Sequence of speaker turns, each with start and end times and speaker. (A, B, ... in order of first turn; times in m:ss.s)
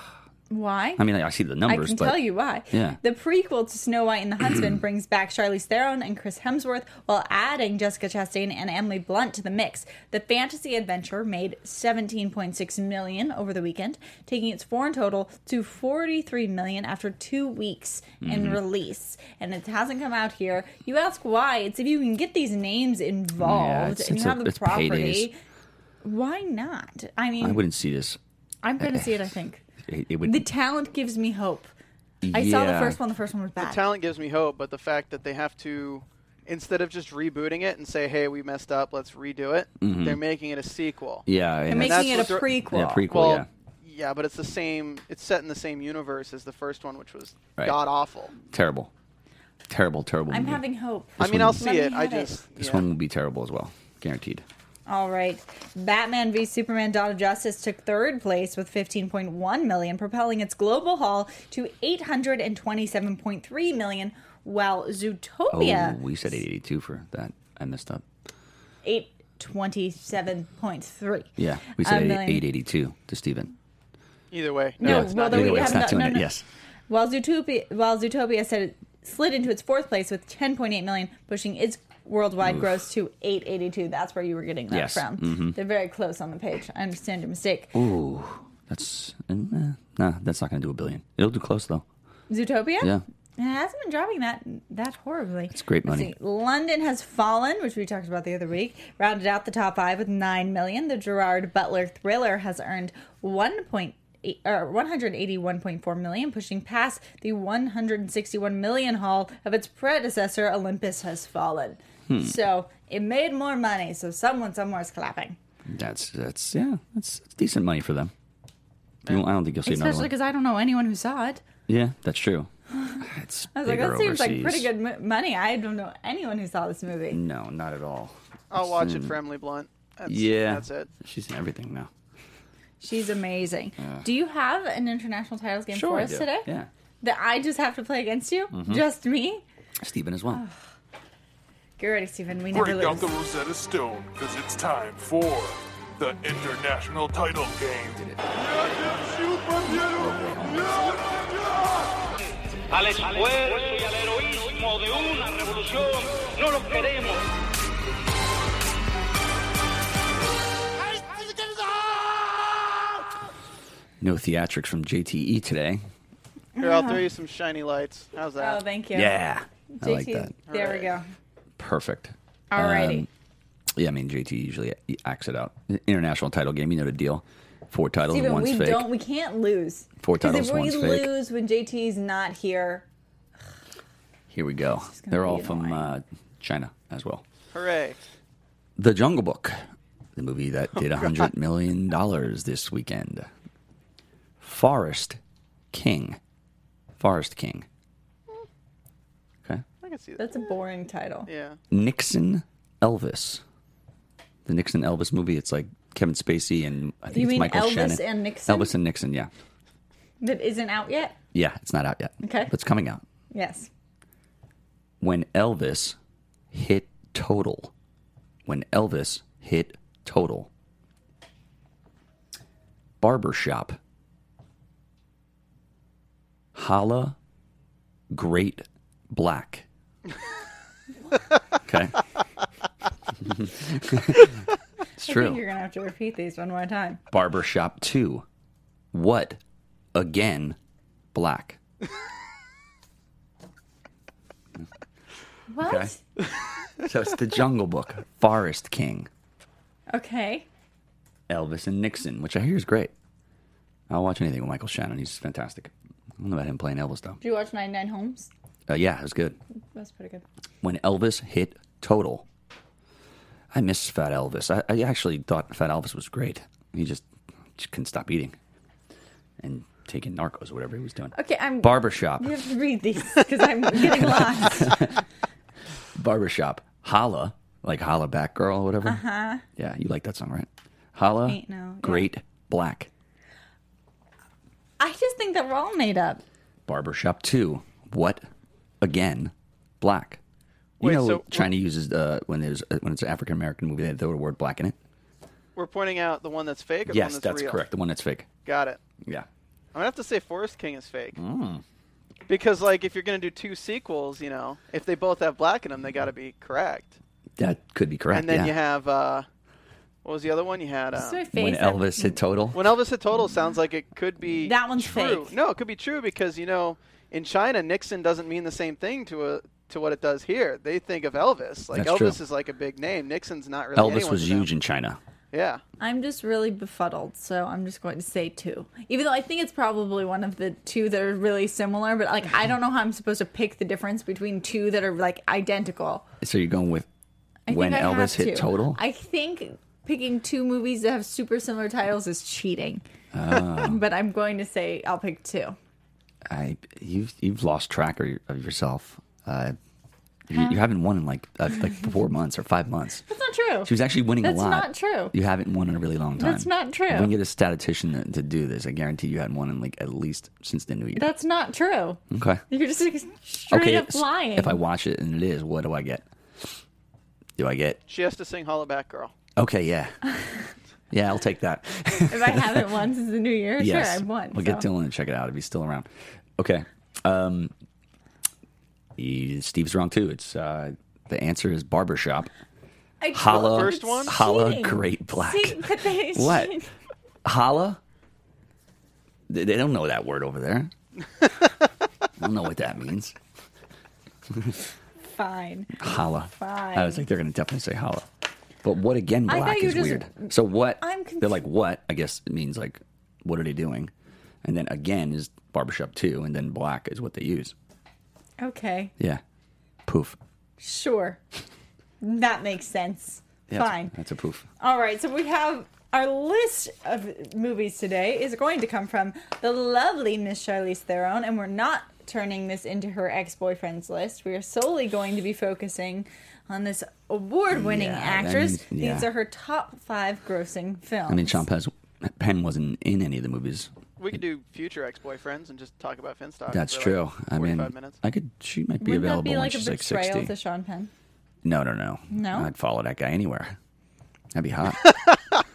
0:00.5-0:01.0 A
0:01.0-0:03.0 B
0:01.6-0:25.4 A
0:18.2-0:18.6 B
0:23.4-0:25.3 B
0:26.0-0:27.6 A
0:27.4-0:28.2 B
0:28.6-0:29.6 A
0:28.8-0:29.3 B
0:29.8-0:30.5 B
0:30.2-0:31.7 A
0:32.2-0:33.0 B
0:32.3-0:33.8 A
0:33.6-0:42.6 C
0:39.8-0:40.2 B
0:41.2-0:43.5 B
0:41.7-0:43.1 A
0:43.1-0:48.3 C
0:48.5-0:48.9 B
0:49.7-0:50.6 B
0:50.3-0:52.4 A
0:51.2-0:51.6 B
0:51.2-0:52.8 C
0:52.6-0:54.4 B
0:54.9-1:06.0 A
1:05.5-1:08.0 B
1:08.8-1:12.4 A
1:11.4-1:13.5 B
1:14.3-1:16.0 C
1:14.8-1:16.3 A
1:14.8-1:16.4 B
1:16.9-1:27.8 A
1:22.4-1:22.7 B
1:24.7-1:25.6 B
1:27.7-1:31.8 B
1:32.3-1:55.4 A
1:35.5-1:36.1 B
1:52.1-1:52.4 B
1:55.7-1:58.1 B
1:59.1-2:00.1 B
1:59.6-2:01.4 A
2:01.7-2:04.7 B
2:03.5-2:07.2 A
2:07.1-2:09.1 B
2:08.5-2:10.9 C
2:10.1-2:11.9 B
2:12.8-2:16.5 A
2:13.8-2:14.1 B
2:15.7-2:16.7 B
2:17.0-2:19.4 A
2:18.5-2:18.8 B
2:19.8-2:20.4 B
2:21.8-2:23.1 A
2:22.5-2:32.0 D
2:29.9-2:30.7 B
2:32.7-2:37.2 E
2:44.0-2:45.8 B
2:46.6-2:47.0 A
2:46.6-2:48.6 C
2:48.4-2:49.2 A
2:48.9-2:50.3 B
2:49.8-2:51.1 A
2:50.5-2:50.9 C
2:51.6-2:53.1 B
2:52.5-2:53.1 A
2:53.8-2:58.9 B
2:58.1-3:02.9 A
3:00.0-3:01.1 B
3:04.3-3:07.2 B
3:04.9-3:05.9 A
3:07.5-3:08.0 C
3:08.8-3:09.6 B
3:10.2-3:13.3 B
3:14.4-3:15.2 B
3:15.7-3:16.2 B
3:17.0-3:17.6 B
3:19.8-3:20.5 C
3:20.2-3:21.3 A
3:21.3-3:21.6 C
3:21.7-3:23.4 B
3:24.5-3:29.3 B
3:27.1-3:28.7 A
3:30.2-3:31.2 A
3:31.3-3:33.0 B
3:32.2-3:32.5 A
3:33.3-3:33.7 A
3:35.0-3:36.0 B
3:36.5-3:37.7 B
3:38.5-3:40.5 B
3:43.0-3:43.8 B
3:46.6-3:47.2 B
3:48.1-3:49.6 B
3:51.6-3:52.0 B
3:53.2-3:54.3 B
3:55.0-3:55.4 B
3:55.0-3:57.0 A
3:57.1-3:58.2 B
3:58.9-3:59.4 B
3:59.9-4:00.6 B
4:01.1-4:01.6 B
4:05.5-4:06.0 A
4:05.6-4:06.0 B
4:06.7-4:09.1 B
4:09.9-4:10.5 A
4:11.3-4:12.9 B
4:13.9-4:17.2 B
4:17.2-4:18.3 A
4:18.7-4:19.4 B
4:19.7-4:20.2 A
4:20.6-4:22.2 B
4:23.5-4:27.0 B
4:27.6-4:28.4 B
4:29.4-4:32.4 B
4:31.1-4:34.8 A
4:33.7-4:35.0 B
4:35.9-4:39.0 B
4:38.8-4:39.4 A
4:39.6-4:42.9 B
4:41.2-4:42.1 A
4:44.8-4:46.2 A
4:46.7-4:48.2 B
4:48.8-4:50.2 B
4:50.8-4:51.5 C
4:50.8-4:54.8 B
4:55.6-4:57.6 C
4:56.9-4:58.3 B
4:58.4-4:58.8 C
4:59.0-4:59.3 B
4:59.7-5:01.2 C
5:01.2-5:01.6 B
5:02.3-5:07.0 C
5:07.4-5:08.6 B
5:08.1-5:09.3 C
5:10.0-5:11.2 C
5:10.9-5:12.2 A
5:11.3-5:12.7 B
5:12.5-5:24.5 C
5:14.4-5:15.3 A
5:21.7-5:22.2 B
5:23.8-5:25.0 B
5:25.3-5:25.6 C
5:25.8-5:36.1 A
5:36.2-5:36.9 B
5:37.5-5:42.8 A
5:37.5-5:38.8 B
5:43.1-5:43.8 B
5:43.4-5:45.6 A
5:46.3-5:49.6 B
5:50.3-5:53.0 B
5:53.1-5:55.1 A
5:53.6-6:01.1 B
5:56.2-5:57.1 A
6:00.9-6:04.6 A
6:02.1-6:02.4 B
6:03.5-6:06.5 B
6:07.4-6:07.8 B
6:07.9-6:09.1 C
6:09.4-6:10.0 B
6:10.9-6:12.7 B
6:12.1-6:14.6 A
6:13.6-6:17.5 B
6:19.0-6:22.3 B
6:23.0-6:26.7 A
6:23.1-6:26.6 B
6:23.3-6:24.1 C
6:27.2-6:27.8 B
6:29.3-6:30.7 B
6:32.2-6:33.2 B
6:34.3-6:34.6 B
6:35.1-6:35.8 A
6:35.8-6:38.1 B
6:36.3-6:37.0 A
6:38.6-6:43.9 B
6:39.3-6:41.4 A
6:44.4-6:47.5 B
6:48.4-6:48.9 A
6:49.9-6:50.2 B
6:50.6-6:51.2 A
6:52.0-6:53.9 A
6:53.5-6:54.5 B
6:54.6-7:11.4 A
7:07.5-7:09.1 B
7:11.1-7:13.7 B
7:14.0-7:18.0 C
7:16.5-7:20.3 B
7:18.8-7:20.9 A
7:21.4-7:23.6 B
7:22.1-7:22.5 A
7:24.3-7:25.0 B